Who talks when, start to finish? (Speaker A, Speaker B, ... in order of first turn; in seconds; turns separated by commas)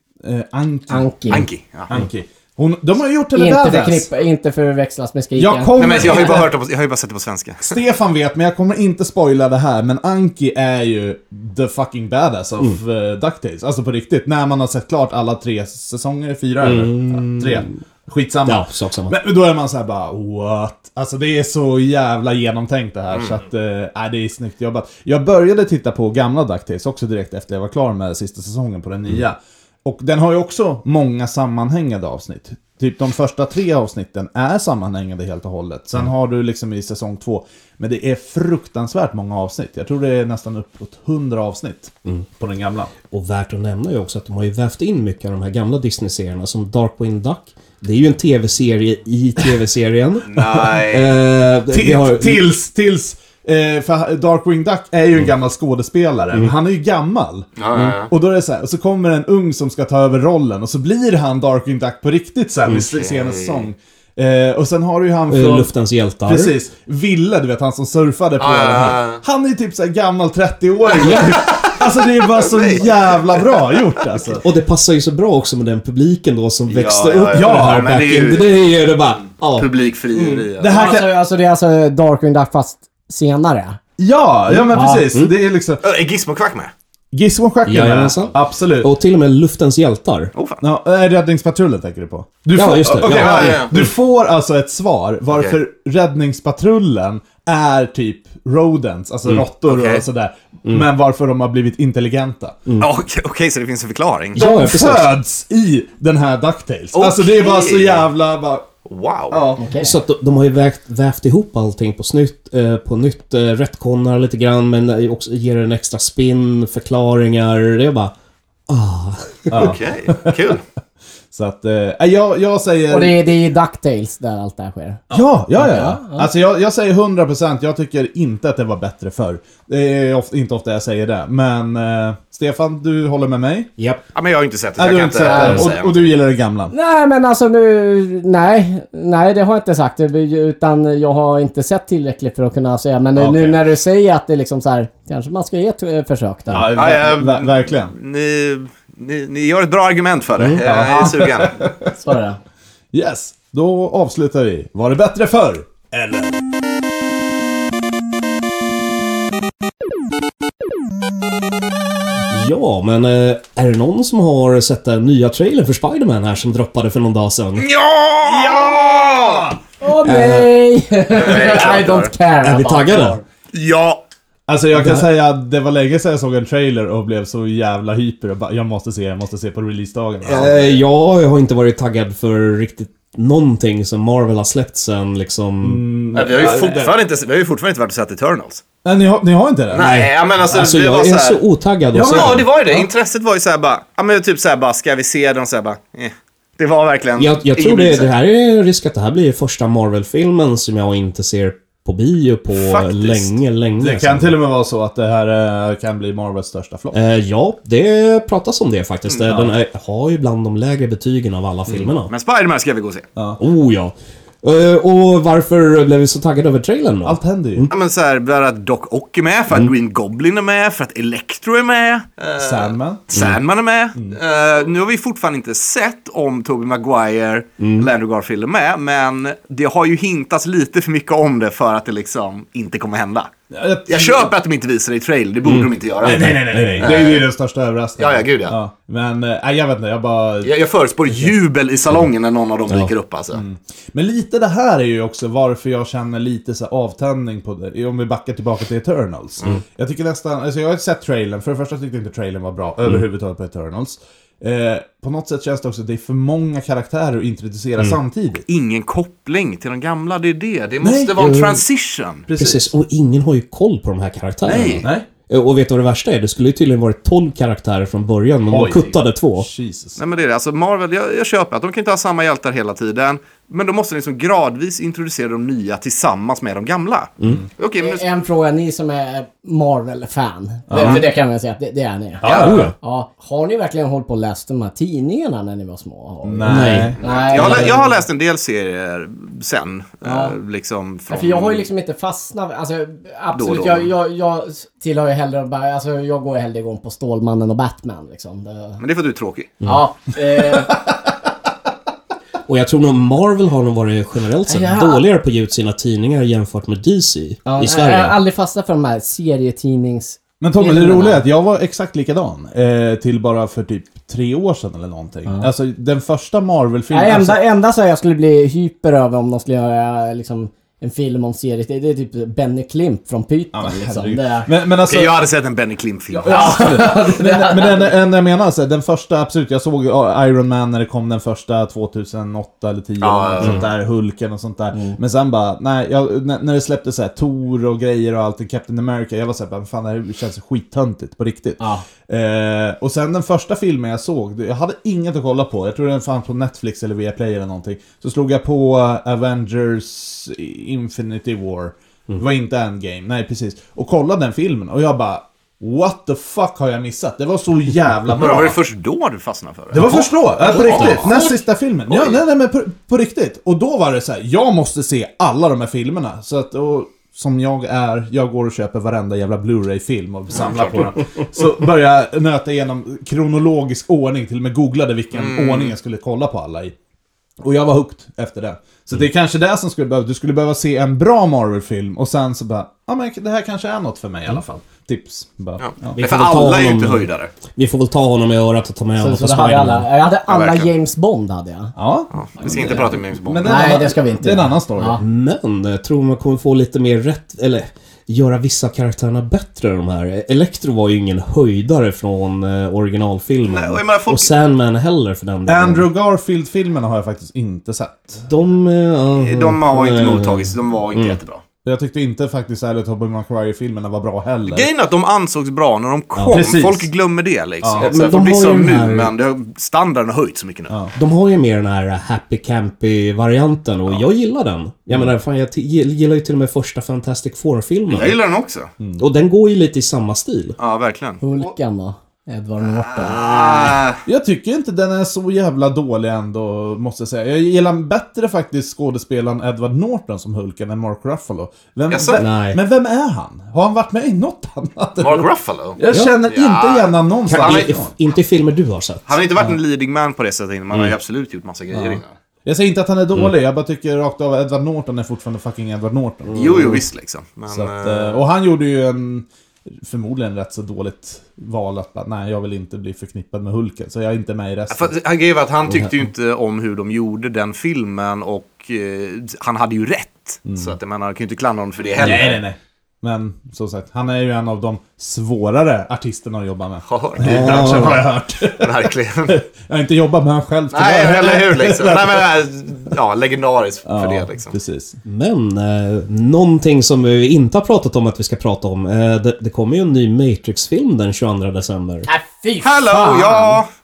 Speaker A: 0.2-4.1, Speaker B: 0.9-1.5, Speaker C: 1.3-1.9, Speaker B: 3.4-6.4, Speaker A: 5.3-6.5, Speaker C: 5.8-7.8, Speaker A: 7.6-42.9, Speaker D: 16.6-17.8, Speaker D: 18.5-19.2, Speaker D: 43.1-52.4, Speaker C: 50.3-51.1, Speaker A: 51.7-65.7, Speaker C: 57.6-58.1, Speaker C: 62.8-63.7, Speaker D: 65.3-66.5, Speaker A: 66.2-74.4, Speaker C: 68.4-69.2, Speaker C: 70.9-74.0, Speaker D: 74.4-80.4, Speaker C: 76.7-78.6, Speaker A: 77.3-77.9, Speaker C: 79.5-80.8, Speaker A: 80.6-81.2, Speaker B: 80.7-83.8, Speaker A: 84.0-85.8, Speaker B: 84.7-85.1, Speaker C: 85.8-86.7, Speaker A: 87.1-88.9, Speaker D: 87.7-90.3, Speaker C: 90.3-90.6, Speaker A: 90.6-102.6, Speaker D: 92.5-93.6, Speaker C: 93.0-93.8, Speaker C: 95.3-95.6, Speaker C: 99.7-100.0, Speaker C: 102.8-104.4, Speaker D: 104.4-105.1, Speaker A: 104.4-108.7, Speaker C: 106.9-108.1, Speaker C: 108.9-109.4, Speaker A: 109.3-109.6, Speaker B: 109.6-110.0, Speaker D: 109.8-118.1, Speaker D: 118.7-119.5, Speaker A: 119.5-120.5, Speaker C: 119.5-120.6, Speaker A: 121.3-123.3, Speaker B: 122.9-125.0, Speaker A: 125.1-133.7, Speaker B: 125.6-126.3, Speaker D: 133.8-134.0, Speaker C: 134.2-136.1, Speaker A: 134.8-136.7, Speaker B: 135.2-135.7, Speaker B: 136.7-146.7, Speaker A: 143.2-143.6, Speaker A: 146.5-147.9, Speaker C: 146.8-151.6, Speaker D: 150.4-150.6, Speaker A: 150.6-151.9, Speaker B: 151.9-152.4, Speaker A: 152.9-156.4, Speaker D: 162.3-167.7, Speaker C: 167.6-169.5, Speaker A: 168.2-169.6, Speaker B: 169.8-173.2, Speaker D: 170.0-170.5, Speaker C: 171.1-172.1, Speaker D: 172.4-173.2, Speaker C: 173.5-174.0, Speaker A: 174.5-180.8, Speaker D: 180.2-185.9, Speaker A: 185.6-186.9, Speaker C: 186.1-188.6, Speaker A: 188.8-189.9, Speaker C: 189.7-191.4, Speaker D: 189.8-192.5, Speaker A: 191.9-192.8, Speaker C: 192.0-198.1, Speaker D: 197.2-204.3, Speaker C: 202.5-203.3, Speaker A: 203.8-207.0, Speaker D: 206.9-212.1, Speaker C: 212.1-213.1, Speaker D: 213.4-217.7, Speaker A: 217.1-217.7, Speaker C: 217.7-233.3, Speaker A: 222.4-223.1, Speaker D: 227.6-227.9, Speaker A: 233.5-234.3, Speaker C: 233.9-237.3, Speaker D: 235.5-236.9, Speaker A: 236.0-240.5, Speaker C: 238.0-238.6, Speaker C: 240.4-243.4, Speaker A: 243.3-258.4, Speaker C: 258.5-262.3, Speaker A: 260.8-261.2, Speaker D: 261.2-261.6, Speaker A: 262.3-262.7, Speaker D: 262.4-269.5, Speaker C: 264.5-264.9, Speaker A: 264.8-265.1, Speaker A: 268.5-270.0, Speaker C: 270.0-278.0, Speaker B: 277.8-282.3, Speaker A: 280.7-281.1, Speaker A: 282.2-282.7, Speaker C: 282.2-282.5, Speaker D: 282.3-282.7, Speaker B: 282.8-288.0, Speaker A: 286.2-287.7, Speaker D: 286.5-286.9, Speaker C: 287.0-291.7, Speaker B: 290.0-290.4, Speaker B: 291.1-298.8, Speaker C: 293.3-293.9, Speaker C: 298.8-299.6, Speaker B: 299.6-300.8, Speaker A: 300.6-300.9, Speaker D: 302.5-308.2, Speaker B: 304.5-305.0, Speaker B: 307.5-311.2, Speaker A: 310.4-317.4, Speaker B: 316.9-324.5, Speaker A: 323.5-325.2, Speaker C: 324.8-326.8, Speaker A: 326.1-358.6, Speaker B: 326.2-327.9, Speaker C: 333.0-333.7, Speaker B: 334.7-335.0, Speaker B: 341.6-341.9, Speaker C: 358.1-361.2, Speaker A: 359.7-376.8, Speaker D: 359.8-361.1, Speaker C: 361.9-362.2, Speaker C: 370.3-370.9, Speaker C: 375.1-375.8, Speaker A: 377.4-386.0, Speaker C: 385.6-387.3, Speaker D: 385.9-389.9, Speaker B: 389.0-391.7, Speaker C: 390.3-390.7, Speaker A: 391.8-395.0, Speaker C: 392.1-393.7, Speaker B: 392.4-395.0, Speaker D: 395.0-405.9, Speaker C: 403.5-404.3, Speaker A: 405.5-408.3, Speaker D: 408.2-411.2, Speaker C: 409.1-411.4, Speaker A: 411.6-414.7, Speaker C: 414.5-420.8, Speaker D: 416.1-416.4, Speaker A: 416.3-416.9, Speaker A: 417.6-417.9, Speaker D: 417.8-419.1, Speaker A: 420.7-420.9, Speaker D: 421.0-428.2, Speaker C: 427.9-428.7, Speaker D: 429.0-430.6, Speaker C: 430.6-431.5, Speaker B: 431.2-433.8, Speaker C: 432.8-434.0, Speaker A: 434.1-447.9, Speaker C: 441.9-442.2, Speaker D: 442.2-442.6, Speaker C: 445.0-447.7, Speaker D: 445.9-446.2, Speaker D: 447.3-449.1, Speaker C: 449.1-452.1, Speaker A: 451.7-456.9, Speaker C: 456.3-458.2, Speaker A: 457.5-459.3, Speaker A: 459.8-464.9, Speaker C: 464.7-472.4, Speaker A: 470.5-470.8, Speaker A: 472.0-482.3, Speaker C: 476.9-479.4, Speaker D: 477.2-478.0, Speaker C: 480.7-484.5, Speaker A: 483.9-485.0, Speaker D: 485.1-492.1, Speaker B: 492.1-493.6, Speaker C: 492.6-493.7